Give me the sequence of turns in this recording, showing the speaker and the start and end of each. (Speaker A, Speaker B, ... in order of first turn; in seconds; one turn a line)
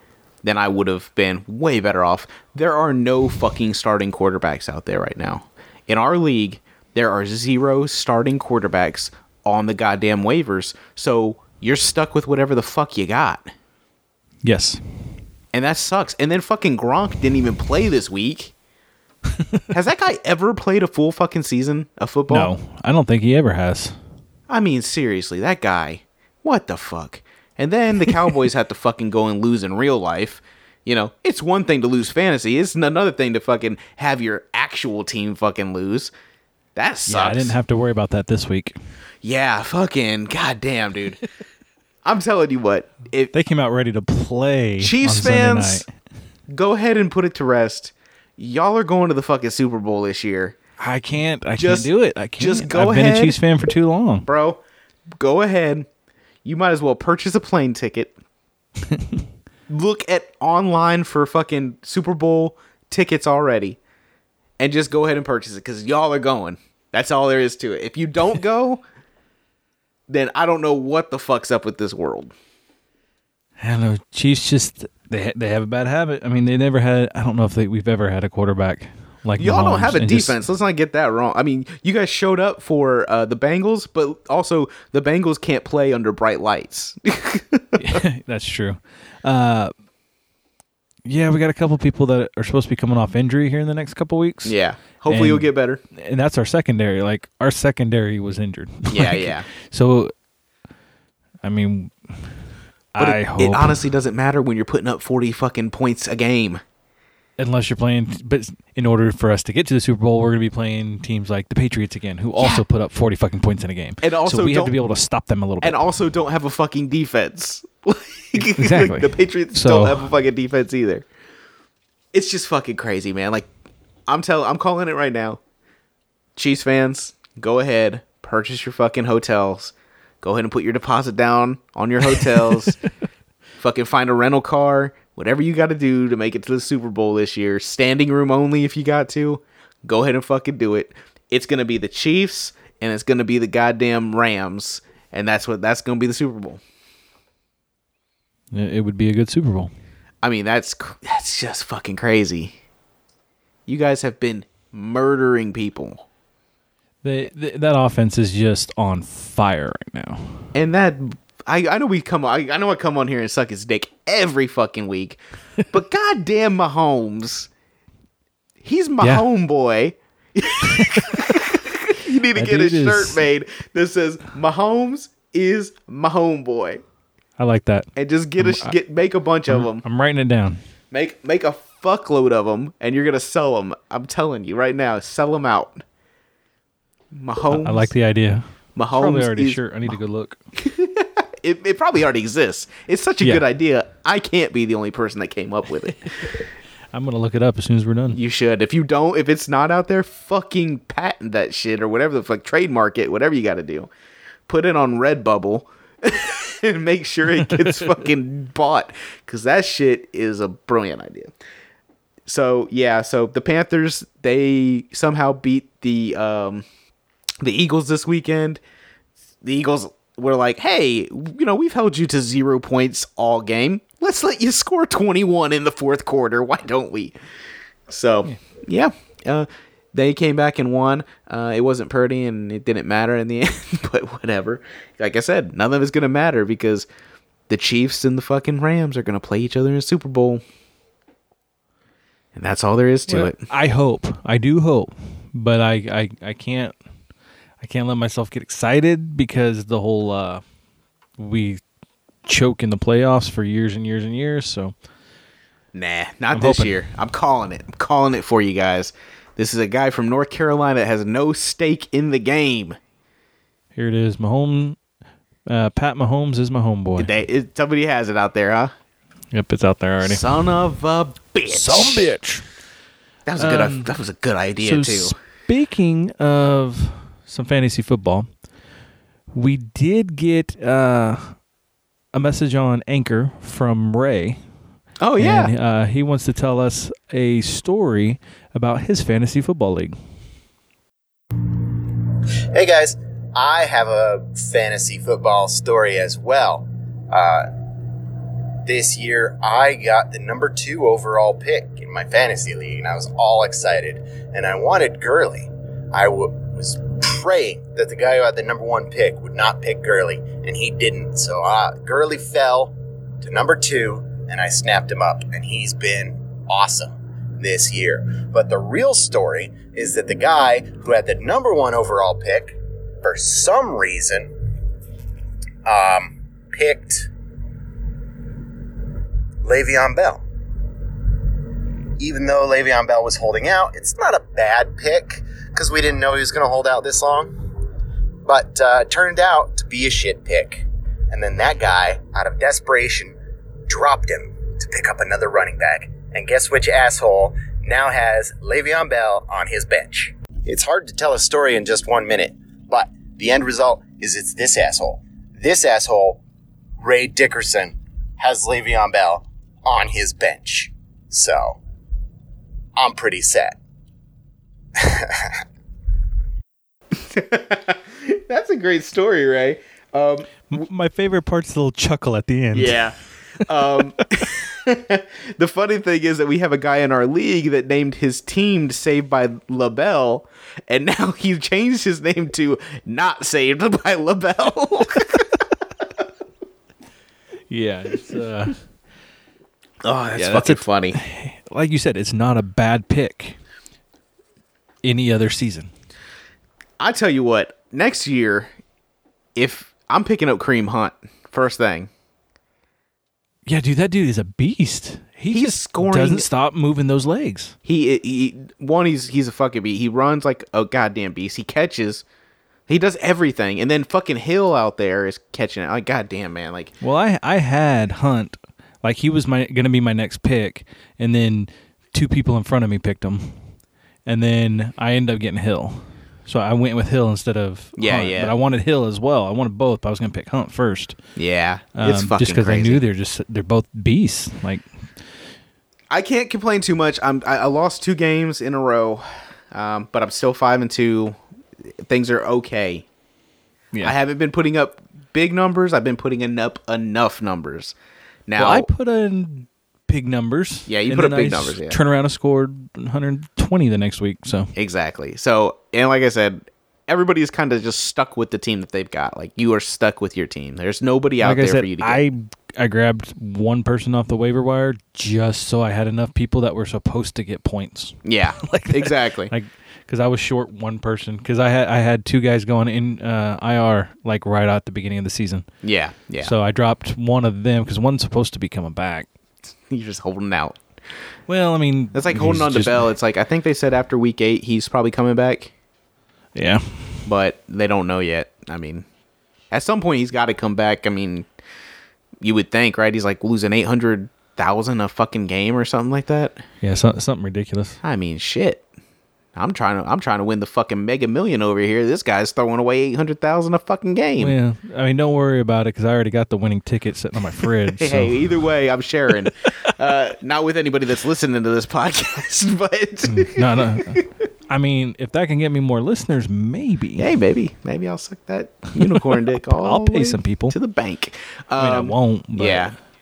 Speaker A: 0.4-13.5
Speaker B: 14.4-14.8
Speaker A: 15.5-18.5
Speaker B: 19.4-19.6
Speaker A: 19.7-22.5
Speaker B: 22.3-24.0
Speaker A: 24.5-36.1
Speaker A: 36.8-37.5
Speaker B: 37.1-38.8
Speaker A: 39.2-41.2
Speaker A: 42.0-43.3
Speaker B: 43.3-45.9
Speaker A: 44.8-45.9
Speaker A: 46.5-50.6
Speaker B: 50.8-54.3
Speaker A: 51.6-53.4
Speaker A: 54.2-54.6
Speaker A: 55.1-55.9
Speaker A: 56.5-58.1
Speaker B: 58.9-59.2
Speaker A: 59.7-63.8
Speaker A: 64.6-68.8
Speaker A: 70.1-72.3
Speaker B: 73.6-80.4
Speaker A: 79.4-88.0
Speaker B: 87.8-89.7
Speaker B: 91.1-100.1
Speaker A: 94.4-95.8
Speaker A: 98.9-99.5
Speaker B: 101.4-102.4
Speaker B: 102.9-103.8
Speaker A: 103.0-106.6
Speaker B: 107.4-115.8
Speaker A: 112.4-112.7
Speaker A: 114.0-114.8
Speaker A: 115.6-121.1
Speaker B: 118.3-120.1
Speaker A: 122.1-123.5
Speaker A: 124.1-125.4
Speaker A: 126.4-132.8
Speaker A: 133.6-146.6
Speaker B: 148.5-149.7
Speaker A: 150.2-152.5
Speaker A: 153.7-156.1
Speaker B: 157.0-160.5
Speaker A: 160.5-167.5
Speaker A: 168.6-176.8
Speaker B: 170.8-171.2
Speaker B: 172.3-173.2
Speaker B: 177.4-178.8
Speaker A: 177.9-179.8
Speaker B: 179.5-180.6
Speaker A: 180.9-185.8
Speaker A: 187.1-187.9
Speaker B: 187.5-190.4
Speaker A: 188.8-189.9
Speaker A: 190.6-196.3
Speaker B: 196.9-198.2
Speaker A: 198.1-203.9
Speaker A: 204.5-211.3
Speaker B: 207.4-207.9
Speaker A: 212.3-216.7
Speaker A: 217.4-218.6
Speaker A: 219.4-227.2
Speaker A: 227.9-236.9
Speaker A: 237.5-240.4
Speaker A: 242.3-243.4
Speaker B: 243.1-246.8
Speaker B: 247.6-250.4
Speaker B: 251.2-251.6
Speaker B: 252.2-254.7
Speaker A: 255.7-262.8
Speaker B: 256.3-256.8
Speaker B: 263.8-264.8
Speaker B: 265.5-267.1
Speaker A: 267.0-268.7
Speaker B: 269.3-270.2
Speaker A: 270.0-272.1
Speaker B: 271.5-272.5
Speaker A: 273.3-275.1
Speaker B: 273.4-273.9
Speaker B: 274.6-278.3
Speaker B: 279.3-281.4
Speaker B: 282.1-284.4
Speaker A: 285.0-285.5
Speaker B: 285.2-290.0
Speaker C: 292.5-297.5
Speaker C: 298.7-324.4
Speaker C: 325.6-327.1
Speaker C: 329.4-330.2
Speaker C: 332.0-337.4
Speaker C: 338.2-343.2
Speaker C: 343.7-356.2
Speaker C: 356.8-361.6
Speaker C: 362.8-363.6
Speaker C: 364.8-365.4
Speaker A: 367.0-370.5
Speaker B: 370.5-372.9
Speaker A: 372.5-385.4
Speaker B: 387.5-388.6
Speaker A: 389.8-391.0
Speaker B: 390.2-393.4
Speaker B: 394.8-395.7
Speaker A: 396.8-398.5
Speaker A: 399.4-401.9
Speaker B: 403.5-407.6
Speaker A: 405.3-406.3
Speaker A: 407.6-412.0
Speaker A: 412.7-416.7
Speaker B: 416.8-423.5
Speaker B: 424.1-431.0
Speaker A: 427.8-428.3
Speaker A: 431.2-432.8
Speaker B: 431.8-434.7
Speaker A: 435.9-441.2
Speaker A: 441.8-442.9
Speaker A: 443.8-447.8
Speaker A: 448.3-448.7
Speaker B: 448.4-454.5
Speaker A: 450.7-451.8
Speaker A: 454.6-462.0
Speaker B: 461.2-475.5
Speaker A: 468.1-469.3
Speaker A: 475.6-476.3
Speaker B: 476.2-479.1
Speaker A: 479.7-480.6
Speaker B: 481.3-482.9
Speaker A: 481.9-485.5
Speaker B: 486.4-487.1
Speaker A: 487.1-488.9
Speaker A: 489.5-491.3
Speaker A: 492.2-496.4
Speaker B: 496.6-497.8
Speaker A: 497.8-498.6
Speaker A: 499.4-504.4
Speaker B: 504.2-508.3
Speaker A: 507.8-514.1
Speaker B: 513.1-517.1
Speaker A: 517.0-522.8
Speaker B: 519.0-520.6
Speaker B: 521.6-522.8